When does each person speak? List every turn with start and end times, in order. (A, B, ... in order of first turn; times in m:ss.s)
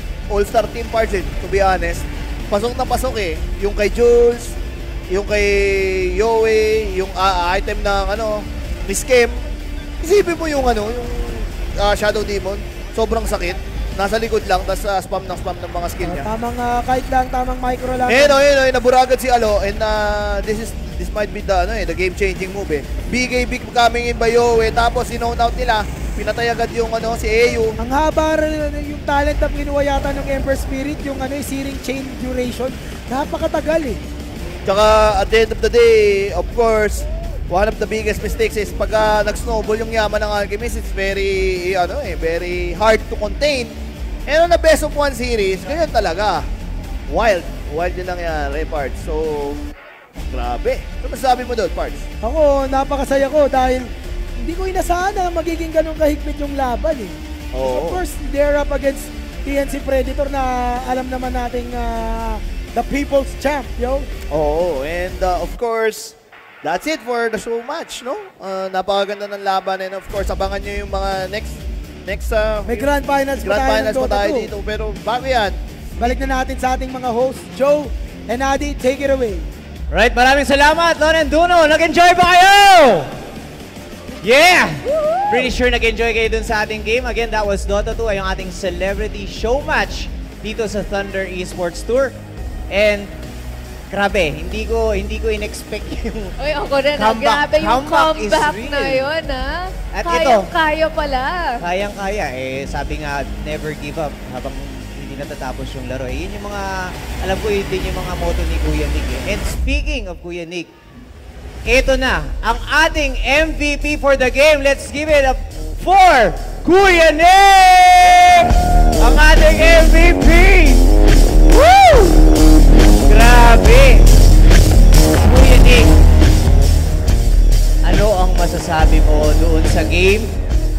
0:00.3-0:04.6 A
0:05.1-0:09.4 A
0:10.0-0:16.3 A
0:16.0-0:18.4 B
0:18.1-0:27.8 A
0:27.8-0:34.0 B
0:34.7-0:43.7 A
0:44.3-0:46.4 A
0:47.1-0:49.6 A
0:50.2-0:52.1 A
0:52.2-1:04.1 B
0:57.5-0:58.0 A
1:04.3-1:12.8 A
1:12.7-1:14.5 B
1:13.4-1:16.2 A
1:16.0-1:19.5 B
1:19.9-1:23.1 C
1:24.2-1:32.2 C
1:32.7-1:33.1 C
1:33.9-1:36.3 C
1:36.4-1:41.6 D
1:37.0-1:39.1 C
1:39.9-1:40.5 C
1:41.6-1:50.7 C
1:51.7-2:00.9 C
2:01.5-2:02.2 C
2:03.1-2:04.1 C
2:05.2-2:05.9 C
2:07.8-2:10.4 C